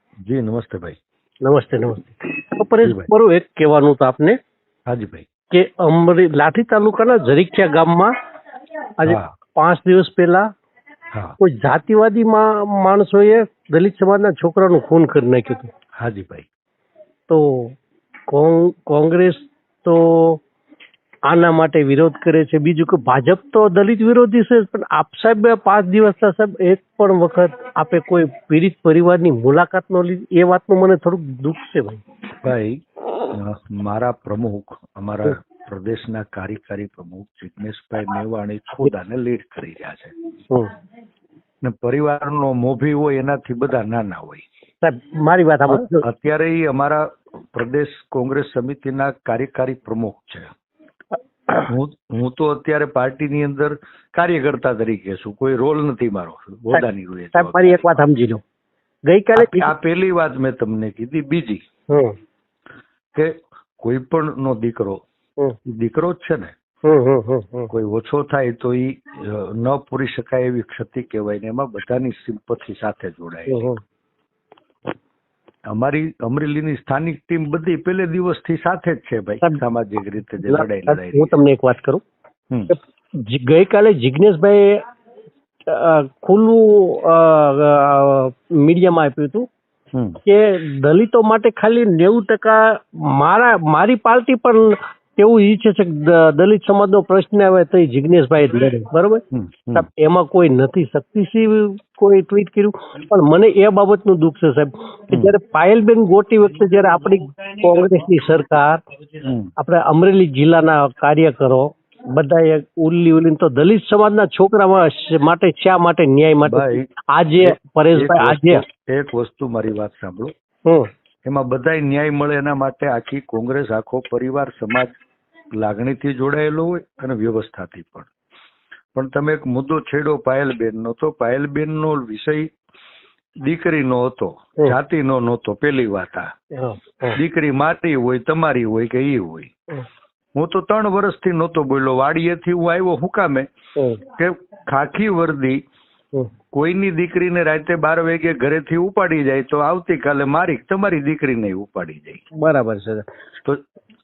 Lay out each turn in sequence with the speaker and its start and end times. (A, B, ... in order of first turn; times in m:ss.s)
0:00.2-0:01.0 A
0:01.4-0:04.4 B
0:02.8-0:03.1 A
0:04.9-0:05.3 A
0:05.5-0:08.1 B
0:09.0-0:10.5 B
0:09.0-0:09.3 A
0:11.4-0:15.7 B
0:16.0-0:16.4 A
0:17.3-0:17.8 B
0:18.3-0:20.4 B
0:21.3-0:32.0 B
0:32.4-0:32.8 A
0:33.3-0:40.1 A
0:41.6-0:44.4 A
0:44.8-0:46.0 B
0:45.7-0:50.5 A
0:51.6-0:58.0 A
0:56.7-0:58.4 B
0:59.1-0:59.7 B
0:59.3-1:01.6 A
1:01.9-1:02.1 B
1:03.1-1:05.0 A
1:05.6-1:06.5 A
1:06.8-1:07.7 B
1:07.7-1:13.7 A
1:13.5-1:13.8 B
1:15.7-1:21.3 A
1:20.4-1:22.0 B
1:22.7-1:24.8 B
1:25.7-1:29.4 B
1:29.9-1:30.2 A
1:30.2-1:39.2 B
1:39.3-1:39.9 A
1:39.7-1:48.8 B
1:49.2-1:49.5 A
1:49.6-1:58.6 B
1:56.4-1:56.8 A
1:57.4-2:00.3 A
2:01.2-2:04.9 A
2:05.6-2:08.1 A
2:08.9-2:12.5 A
2:13.4-2:16.3 A
2:16.5-2:17.2 B
2:17.1-2:19.5 A
2:20.4-2:23.5 A
2:23.8-2:24.0 B
2:24.1-2:25.6 A
2:26.5-2:32.2 A
2:32.3-2:33.1 B